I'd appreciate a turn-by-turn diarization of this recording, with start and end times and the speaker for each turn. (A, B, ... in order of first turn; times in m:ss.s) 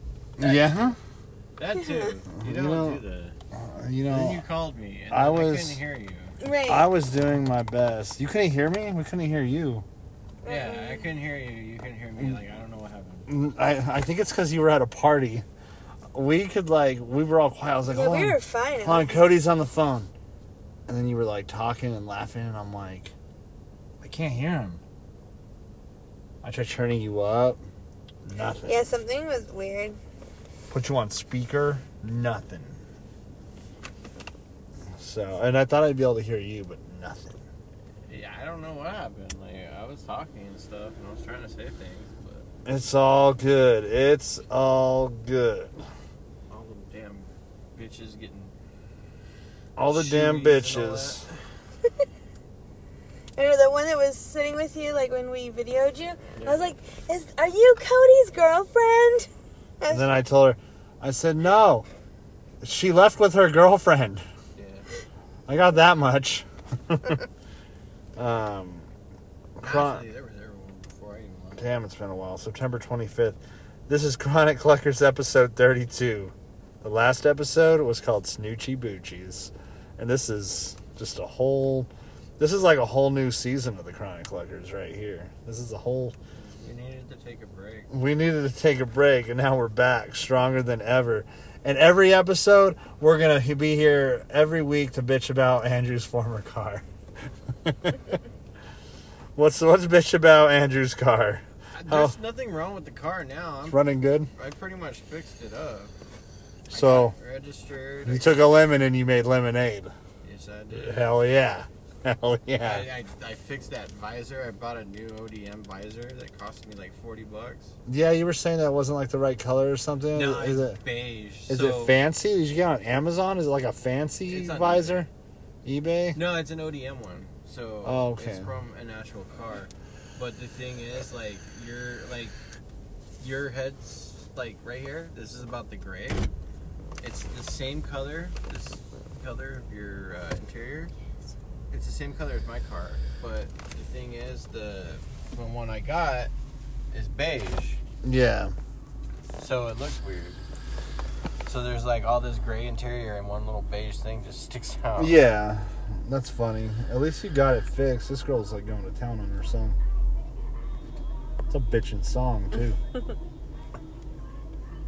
0:00.4-0:01.0 A
0:00.4-0:00.9 B
0:01.6-0:03.4 B
0:01.8-0:02.2 C
0:02.4-0:04.4 A
0:04.1-0:06.4 B
0:05.1-0:05.8 A
0:06.4-0:06.9 C
0:06.6-0:09.8 A
0:10.4-0:11.1 C
0:10.4-0:13.3 B
0:13.3-0:15.4 A
0:16.1-0:20.1 A
0:17.9-0:19.3 C
0:20.9-0:23.1 A
0:24.0-0:24.8 A
0:26.4-0:27.6 A
0:28.2-0:28.8 A
0:28.6-0:30.0 C
0:30.7-0:32.8 A
0:34.9-0:37.4 A
0:38.1-0:42.5 B
0:42.6-0:45.8 A
0:46.5-0:48.5 B
0:49.8-0:51.2 A
0:49.9-0:51.4 B
0:53.4-0:59.3 C
0:56.3-0:56.7 B
0:59.8-1:00.1 C
0:59.9-1:01.9 A
1:02.6-1:04.2 A
1:04.6-1:04.9 B
1:05.5-1:07.2 A
1:08.2-1:08.9 A
1:09.6-1:10.1 A
1:09.6-1:11.7 B
1:11.6-1:26.1 A
1:26.4-1:27.9 B
1:27.9-1:36.8 A
1:37.6-1:38.2 A
1:39.4-1:42.2 A
1:41.7-1:45.9 B
1:43.6-1:44.3 A
1:46.7-1:47.2 A
1:46.7-1:48.4 B
1:48.0-1:49.9 A
1:50.2-1:51.2 B
1:50.7-1:52.9 A
1:52.6-1:57.7 B
1:57.9-2:00.8 A
2:00.1-2:02.0 B
2:01.5-2:05.1 A
2:04.2-2:05.1 B
2:05.6-2:06.2 A
2:06.1-2:12.4 B
2:07.8-2:08.5 A
2:13.2-2:16.3 B
2:17.0-2:20.9 B
2:21.7-2:26.3 B
2:26.9-2:27.8 B
2:28.0-2:28.5 A
2:29.4-2:30.4 B
2:31.4-2:35.2 B
2:35.0-2:39.8 A
2:41.5-2:42.8 A